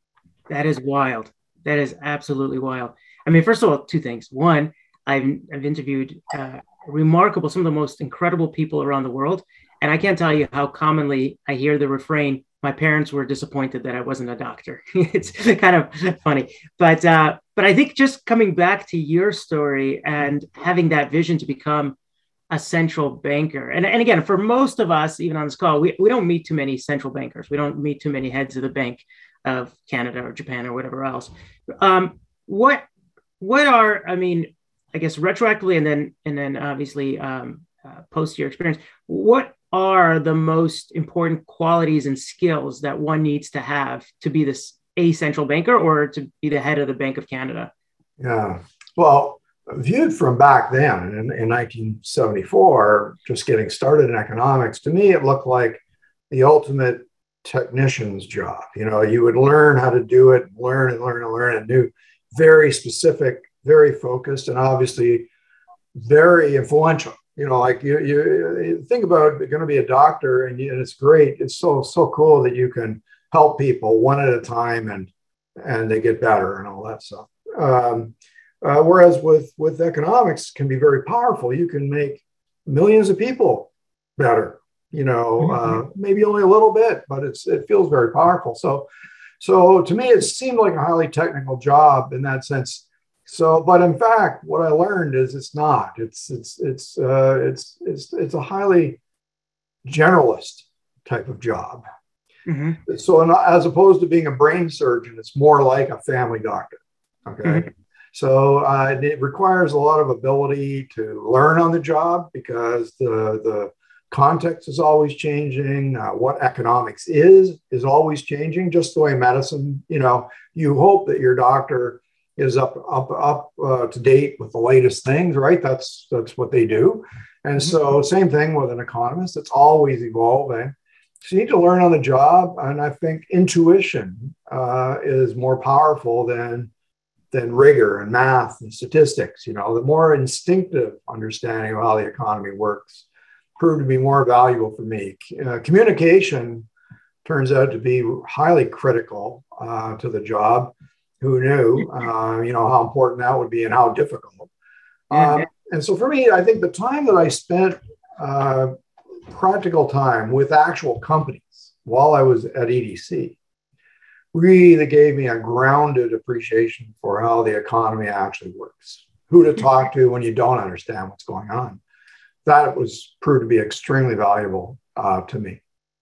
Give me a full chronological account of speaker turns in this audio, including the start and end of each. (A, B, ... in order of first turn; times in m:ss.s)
0:00.5-0:22.0 A
0:22.5-0:32.8 A
0:33.4-0:47.7 A
0:48.2-1:05.3 B
1:06.0-1:28.9 B
1:29.4-1:39.0 B
1:39.8-1:41.8 B
1:42.5-1:42.8 A
1:42.9-2:16.7 B
1:47.4-1:47.7 A
2:17.3-2:23.0 B
2:23.6-2:26.7 B
2:27.2-2:34.5 B
2:35.1-2:38.7 B
2:35.2-2:35.4 A
2:39.3-2:43.4 B
2:44.3-2:51.8 B
2:52.4-2:55.6 B